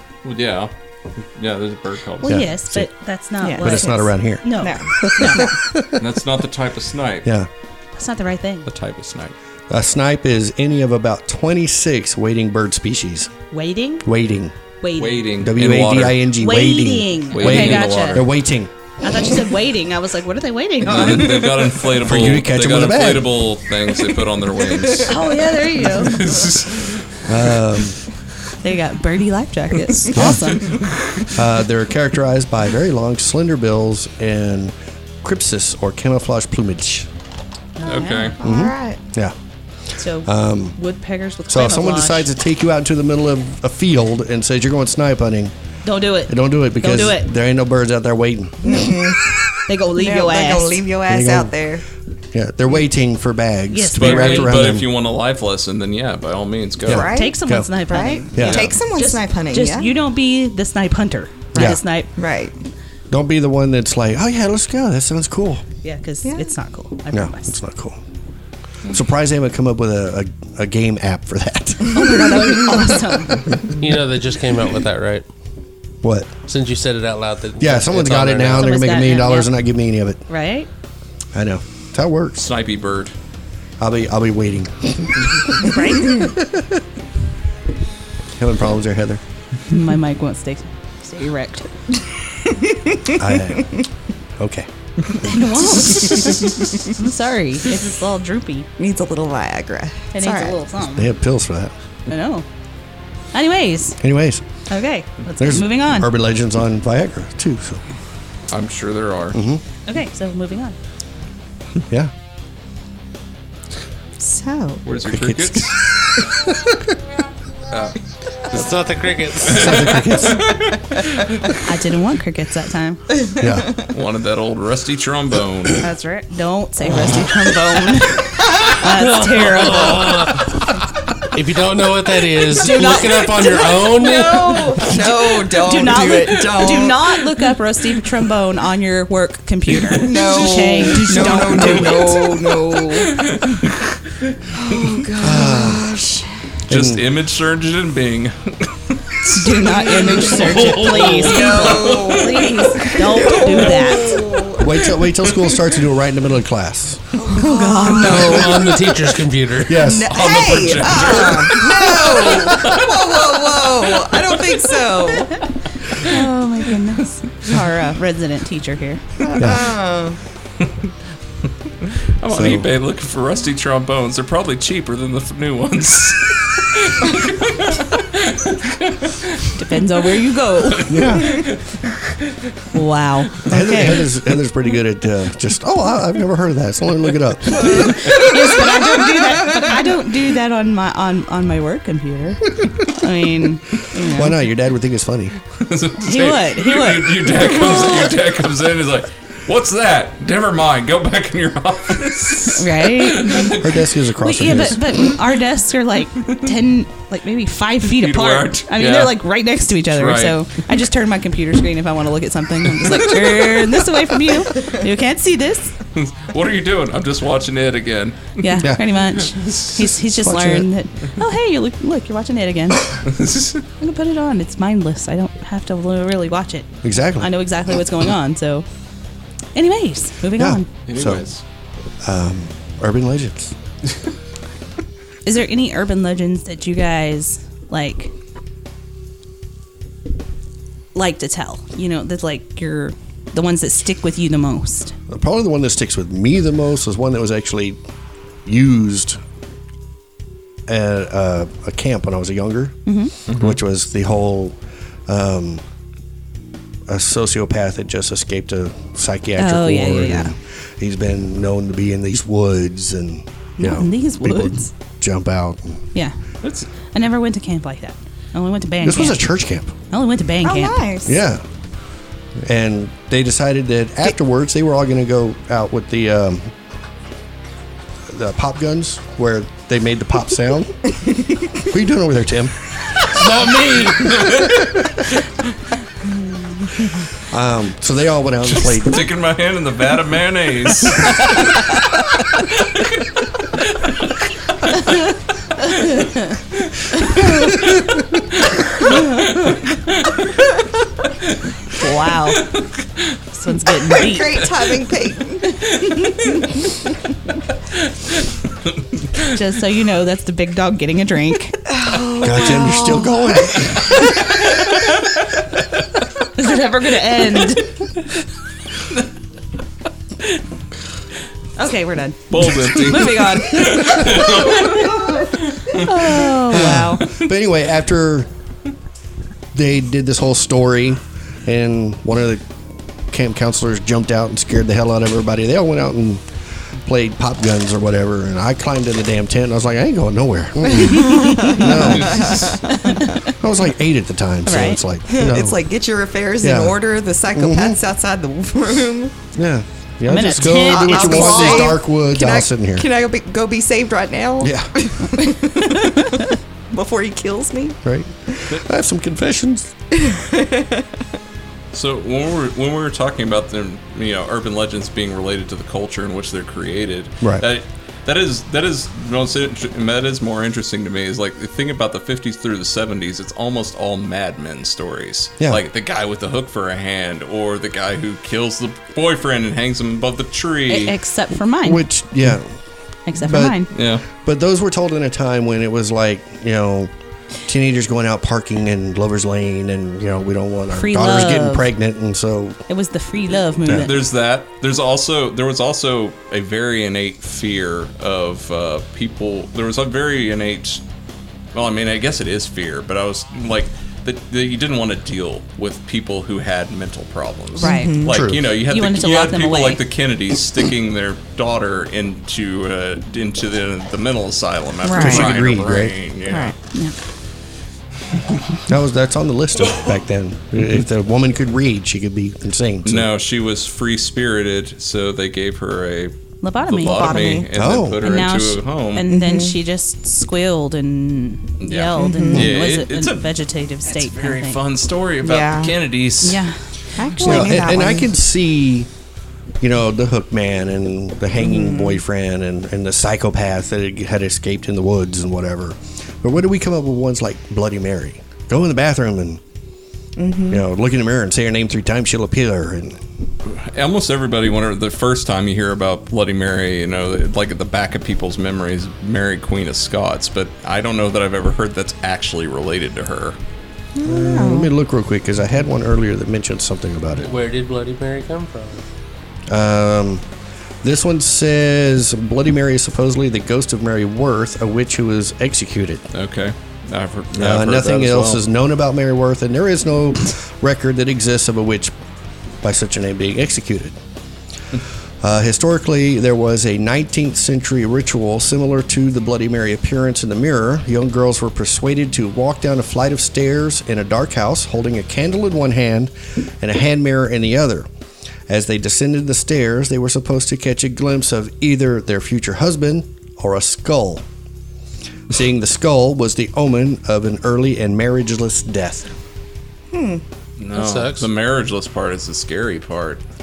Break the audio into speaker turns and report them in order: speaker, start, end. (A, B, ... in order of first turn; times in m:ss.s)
0:00.2-0:02.5 A
0:02.2-0:05.5 B
0:02.2-0:02.9 C
0:03.4-0:05.6 D
0:03.6-0:06.1 C
0:06.0-0:07.3 A
0:07.2-0:07.5 C
0:08.0-0:08.7 B
0:08.7-0:09.3 A
0:09.7-0:13.3 C
0:13.5-0:14.1 B
0:14.0-0:14.6 C
0:14.8-0:15.2 B
0:15.0-0:16.2 A
0:15.4-0:18.7 C
0:16.4-0:18.2 B
0:17.3-0:18.3 A
0:19.0-0:21.7 B
0:20.8-0:25.3 A
0:21.9-0:23.6 C
0:25.0-0:26.5 B
0:25.8-0:27.6 A
0:27.3-0:28.0 C
0:28.6-0:30.8 B
0:30.1-0:30.8 C
0:30.2-0:31.4 A
0:31.3-0:37.1 C
0:37.8-0:38.3 B
0:37.8-0:38.4 A
0:38.4-0:39.0 D
0:38.4-0:39.4 C
0:40.0-0:42.3 B
0:40.2-0:40.8 C
0:41.5-0:45.5 C
0:45.8-0:47.4 B
0:46.3-0:49.2 C
0:48.6-0:49.3 D
0:49.7-0:50.8 B
0:50.0-0:51.8 D
0:51.1-0:51.5 C
0:52.3-0:54.9 C
0:53.7-0:54.8 B
0:54.0-0:57.1 A
0:56.8-0:57.7 C
0:56.9-0:59.9 D
0:57.0-1:02.1 B
0:58.3-0:58.7 C
1:01.5-1:02.7 D
1:01.5-1:01.8 C
1:03.1-1:05.6 C
1:05.8-1:07.6 B
1:07.1-1:08.0 C
1:08.9-1:13.2 C
1:11.9-1:13.5 B
1:12.6-1:13.0 D
1:13.8-1:15.3 E
1:16.0-1:16.3 C
1:16.5-1:18.7 E
1:17.6-1:20.2 C
1:18.5-1:19.5 B
1:20.3-1:20.7 B
1:21.3-1:22.5 C
1:22.4-1:23.1 A
1:23.8-1:26.8 C
1:25.6-1:26.3 B
1:28.4-1:29.2 C
1:29.7-1:31.7 B
1:32.3-1:33.8 D
1:33.1-1:33.8 C
1:34.4-1:35.4 C
1:35.2-1:36.9 D
1:35.3-1:38.7 B
1:36.1-1:36.6 A
1:38.8-1:40.6 D
1:40.1-1:41.1 B
1:40.8-1:41.7 C
1:42.1-1:42.5 B
1:43.3-1:44.0 B
1:44.0-1:44.4 C
1:44.7-1:46.1 B
1:45.4-1:47.8 C
1:48.5-1:49.4 A
1:49.3-1:49.6 C
1:49.9-1:50.8 B
1:54.2-1:54.8 D
1:54.9-1:55.8 A
1:55.0-1:56.9 C
1:57.7-1:58.0 A
1:58.5-2:00.1 E
1:59.5-2:00.5 C
1:59.5-2:01.6 A
2:01.6-2:03.0 B
2:03.2-2:03.9 D
2:03.4-2:03.7 C
2:03.9-2:05.8 A
2:05.8-2:10.1 B
2:09.0-2:10.6 E
2:11.3-2:15.0 E
2:12.6-2:17.3 D
2:12.8-2:13.0 B
2:15.6-2:22.2 B
2:19.7-2:20.1 A
2:19.9-2:23.5 D
2:21.2-2:24.0 A
2:24.5-2:26.5 D
2:25.2-2:25.9 C
2:26.7-2:27.0 C
2:26.7-2:33.3 A
2:29.3-2:34.2 B
2:29.4-2:34.7 D
2:34.6-2:37.1 C
2:37.2-2:38.9 D
2:37.3-2:38.3 B
2:38.1-2:39.8 E
2:39.7-2:40.2 C
2:39.8-2:45.4 D
2:40.1-2:44.9 A
2:46.0-2:48.0 D
2:46.0-2:49.2 B
2:49.2-2:50.2 D
2:49.4-2:49.7 C
2:50.6-2:50.9 A
2:51.8-2:59.6 A
2:52.3-2:52.7 C
2:59.6-3:01.0 B
3:00.7-3:02.6 A
3:00.9-3:01.5 C
3:02.7-3:04.0 B
3:03.4-3:08.0 C
3:07.6-3:14.4 B
3:14.0-3:15.4 C
3:15.5-3:23.8 A
3:16.0-3:18.1 B
3:22.5-3:23.5 B
3:23.4-3:24.8 C
3:24.2-3:35.8 B
3:24.4-3:24.7 A
3:27.9-3:29.2 A
3:29.9-3:30.4 A
3:32.8-3:33.7 A
3:35.9-3:38.6 A
3:38.4-3:43.0 B
3:39.1-3:39.9 A
3:40.2-3:40.7 C
3:43.0-3:43.6 A
3:43.8-3:48.7 B
3:46.8-3:47.3 C
3:49.6-3:50.7 B
3:50.4-3:51.3 C
3:50.9-3:51.4 A
3:52.0-3:53.6 C
3:55.2-3:58.1 B
4:01.0-4:05.0 B
4:05.1-4:07.8 C
4:08.4-4:09.2 C
4:10.7-4:15.6 C
4:12.9-4:13.1 B
4:13.3-4:13.6 A
4:16.9-4:25.8 C
4:19.4-4:20.3 B
4:23.6-4:24.7 B
4:26.4-4:26.7 A
4:26.8-4:29.3 B
4:28.8-4:29.7 C
4:29.9-4:30.8 B
4:30.4-4:31.2 D
4:31.0-4:31.4 C
4:32.4-4:36.5 C
4:38.1-4:41.0 C
4:41.5-4:42.6 C
4:43.1-4:44.2 E
4:44.0-4:45.1 A
4:44.2-4:44.9 C
4:47.2-4:49.1 C
4:48.6-4:54.8 A
4:55.6-5:00.2 A
5:01.7-5:02.5 B
5:02.4-5:03.2 A
5:03.3-5:04.5 B
5:03.9-5:06.8 D
5:09.2-5:11.6 B
5:11.7-5:14.4 D
5:12.2-5:13.9 C
5:14.3-5:15.0 A
5:16.4-5:17.9 B
5:21.6-5:24.9 B
5:22.3-5:27.3 A
5:25.7-5:27.1 B
5:26.5-5:28.3 C
5:29.5-5:32.4 C
5:33.1-5:36.2 C
5:36.8-5:42.6 C
5:40.7-5:43.2 D
5:41.0-5:41.9 B
5:41.8-5:42.6 A
5:42.9-5:43.3 B
5:43.3-5:45.6 C
5:44.5-5:44.8 B
5:45.1-5:49.2 D
5:46.4-5:46.8 C
5:47.3-5:47.8 C
5:49.4-5:52.9 C
5:50.1-5:51.8 B
5:50.6-5:57.8 D
5:54.4-5:54.7 C
5:57.8-5:59.7 C
6:00.0-6:00.9 D
6:01.7-6:21.0 A
6:20.7-6:21.8 B
6:21.6-6:22.6 C
6:23.1-6:23.7 B
6:23.2-6:26.9 C
6:23.7-6:24.1 A
6:27.4-6:32.6 C
6:30.7-6:31.7 B
6:32.7-6:34.0 B
6:33.7-6:40.8 A
6:41.5-6:56.6 A
6:47.6-6:48.0 B
6:47.6-6:48.2 D
6:48.0-6:48.4 C
6:48.6-6:49.8 B
6:54.8-6:55.4 D
6:54.9-6:56.0 C
6:56.3-6:56.6 D
6:58.3-6:58.6 A
6:58.7-7:03.1 C
7:00.6-7:00.8 A
7:02.8-7:06.2 A
7:06.4-7:07.4 B
7:06.7-7:09.1 A
7:06.8-7:07.5 D
7:07.5-7:08.0 C
7:08.0-7:14.6 B
7:09.1-7:09.6 D
7:11.6-7:13.3 A
7:12.0-7:12.5 D
7:13.8-7:16.4 A
7:15.2-7:15.8 D
7:16.2-7:17.6 B
7:17.0-7:18.1 D
7:17.2-7:18.9 C
7:19.6-7:29.4 C
7:21.4-7:22.0 D
7:30.2-7:30.6 D
7:30.5-7:33.0 C
7:33.4-7:43.4 A
7:44.0-7:44.7 D
7:44.0-7:47.3 C
7:47.2-7:48.8 E
7:49.5-7:50.2 C
7:50.8-7:56.1 C
7:56.1-7:58.4 A
7:57.4-8:01.9 C
8:02.6-8:04.0 C
8:05.2-8:17.9 C
8:18.5-8:24.2 C
8:25.3-8:29.1 C
8:29.9-8:30.2 D
8:30.6-8:33.2 A
8:30.7-8:31.3 E